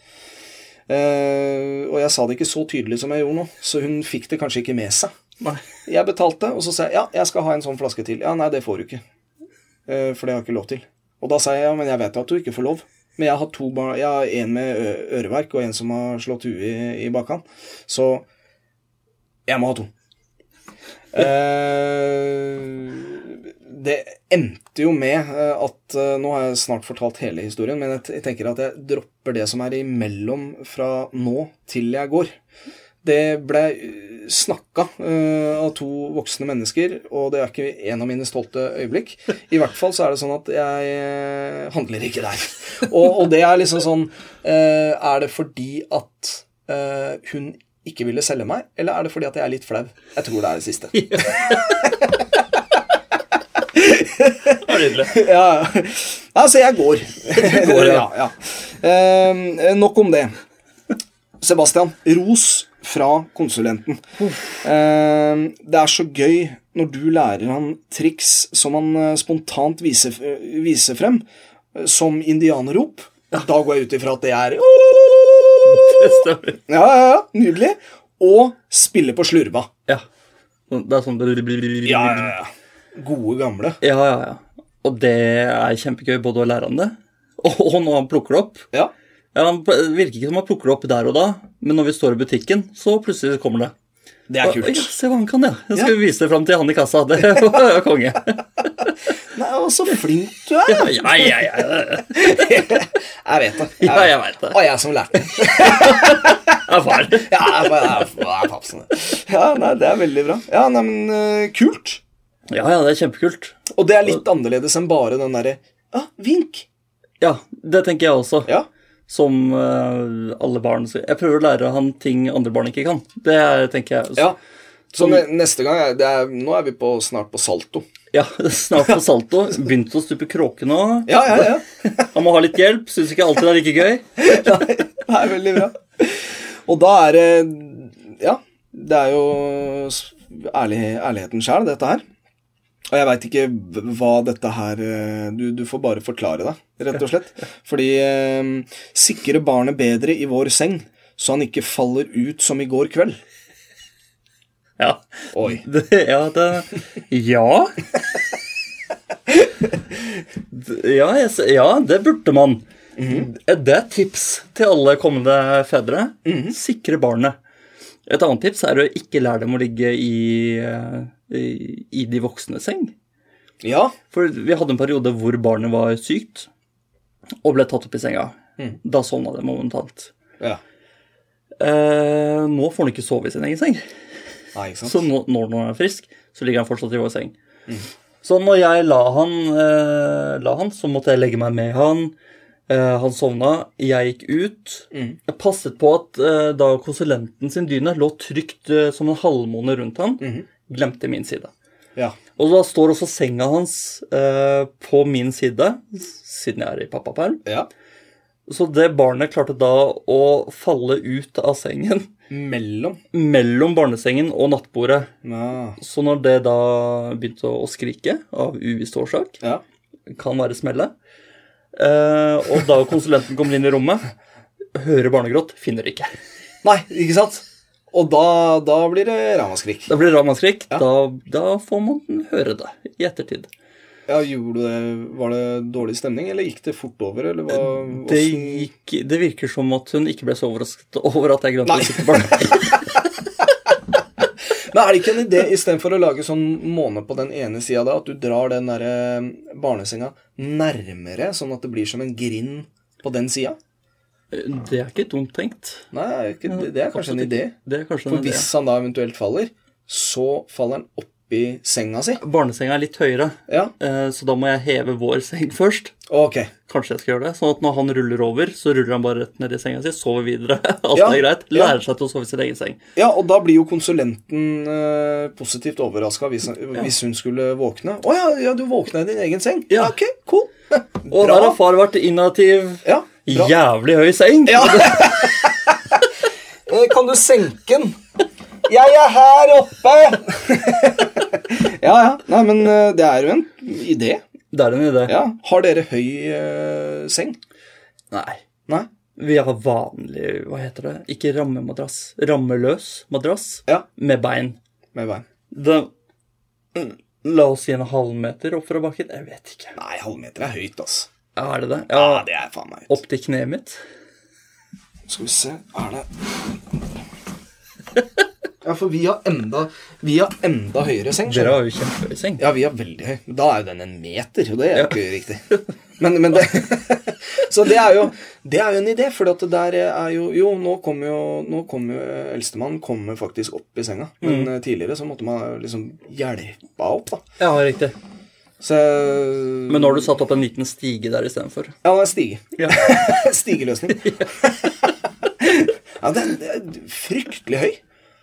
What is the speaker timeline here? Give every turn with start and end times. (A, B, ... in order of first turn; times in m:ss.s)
0:00.9-0:05.1 A
0:05.9-0:09.0 A
0:09.9-0:18.2 A
0:19.5-0:19.9 A
0:21.1-0:32.3 A
0:33.0-0:52.4 A
0:50.9-0:51.9 B
0:53.6-1:00.3 A
0:54.6-0:55.2 B
0:57.4-0:58.1 B
1:01.4-1:04.0 A
1:04.6-1:19.7 A
1:15.6-1:16.6 B
1:20.7-1:22.4 B
1:21.9-1:23.8 A
1:23.8-1:28.7 B
1:29.3-1:33.7 B
1:34.3-1:34.9 A
1:34.4-1:38.9 B
1:39.3-1:41.4 A
1:40.7-1:42.6 B
1:42.1-1:52.0 A
1:43.8-1:44.6 B
1:45.5-1:47.9 B
1:52.5-1:53.7 B
1:53.7-1:56.7 A
1:57.2-1:58.6 B
1:59.1-2:04.3 B
2:04.9-2:07.8 A
2:08.1-2:14.4 B
2:11.1-2:11.7 A
2:14.2-2:22.0 A
2:22.9-2:33.2 A
2:34.8-2:37.9 B
2:35.3-2:35.6 A
2:40.5-2:47.4 B
2:43.0-2:43.3 A
2:46.2-2:46.6 A
2:48.1-2:52.9 B
2:53.6-2:54.0 A
2:54.1-2:56.5 B
2:57.4-3:00.1 B
3:01.6-3:03.8 B
3:04.6-3:05.0 A
3:04.8-3:07.3 B
3:08.2-3:12.1 B
3:12.7-3:21.5 B
3:14.9-3:15.2 A
3:20.2-3:20.5 A
3:22.4-3:27.4 B
3:28.5-3:32.1 B
3:32.3-3:33.0 A
3:33.1-3:35.1 B
3:35.2-3:35.8 A
3:35.8-3:39.4 B
3:40.1-3:40.9 B
3:41.8-3:44.0 B
3:44.7-3:46.1 B
3:46.6-3:49.9 A
3:49.9-3:53.5 B
3:54.1-3:58.7 A
3:57.5-4:03.0 B
4:01.7-4:02.8 A
4:03.4-4:03.7 A
4:04.7-4:13.6 A
4:14.3-4:15.9 B
4:15.9-4:17.5 A
4:16.5-4:18.5 B
4:18.1-4:22.2 A
4:22.2-4:26.0 B
4:23.5-4:23.7 A
4:26.1-4:26.5 A
4:26.7-4:32.8 B
4:31.0-4:31.8 A
4:33.0-4:41.6 A
4:39.7-4:40.0 B
4:41.1-4:45.3 B
4:42.8-4:43.5 A
4:44.5-4:46.1 A
4:46.7-4:48.0 A
4:48.7-4:54.2 A
4:54.5-4:55.2 B
4:55.1-4:57.4 A
4:58.1-4:58.4 B
4:59.2-5:04.6 B
5:04.9-5:05.2 A
5:05.5-5:05.9 B
5:06.8-5:09.8 B
5:09.8-5:11.1 A
5:11.4-5:12.2 B
5:11.9-5:13.0 A
5:12.9-5:13.8 B
5:15.1-5:16.9 A
5:18.6-5:21.6 A
5:21.3-5:22.4 B
5:22.4-5:25.5 A
5:26.0-5:37.2 A
5:34.2-5:34.5 B
5:37.4-5:38.0 B
5:38.6-5:40.1 A
5:39.7-5:41.8 B
5:41.8-5:44.9 A
5:42.6-5:43.1 B
5:44.0-5:44.9 B
5:45.4-5:47.8 A